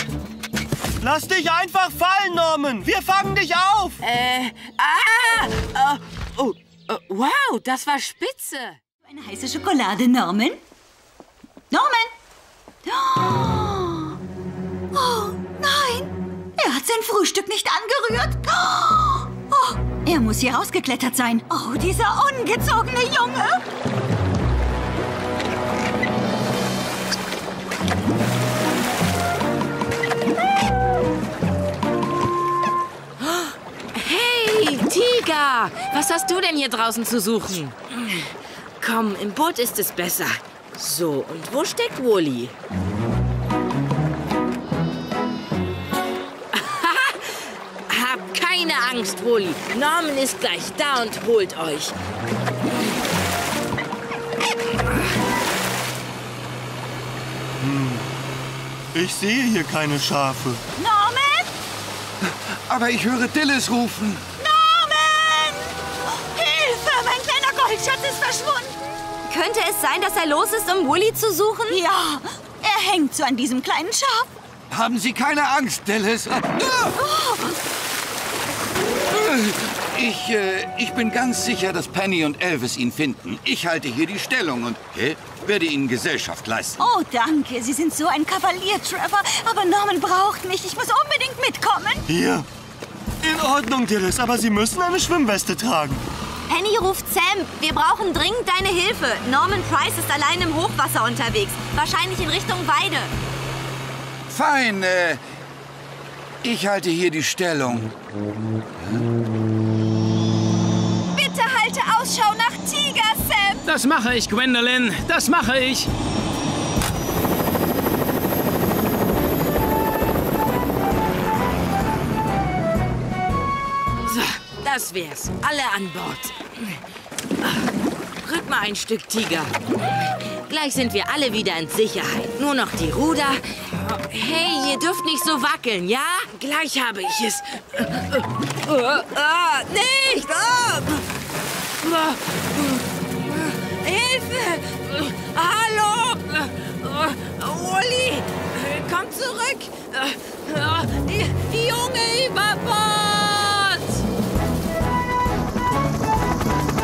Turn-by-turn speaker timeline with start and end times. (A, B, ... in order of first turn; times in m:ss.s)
0:01.0-0:04.0 A
0:04.0-0:08.8 B
0:09.0-0:10.6 C
0:11.7-0:12.1 C
0:12.8-0:14.2 C
0:14.9-0:23.6 C
0:33.2-0:42.5 B
0:46.5-0:52.0 B
0:57.6-0:58.1 A
0:58.9-1:00.6 A
1:00.8-1:01.5 C
1:02.2-1:04.2 D
1:04.4-1:08.8 C
1:09.3-1:11.8 E
1:11.7-1:14.3 C
1:14.7-1:17.0 D
1:17.0-1:17.6 C
1:19.1-1:26.8 D
1:26.8-1:32.0 C
1:32.1-1:32.5 A
1:33.2-1:36.0 A
1:36.5-1:43.1 E
1:44.3-1:45.2 D
1:46.4-1:47.9 D
1:48.8-1:49.1 D
1:51.1-1:53.6 E
1:53.6-1:55.9 F
2:04.0-2:06.8 B
2:07.4-2:07.7 B
2:08.2-2:21.0 B
2:21.8-2:34.0 B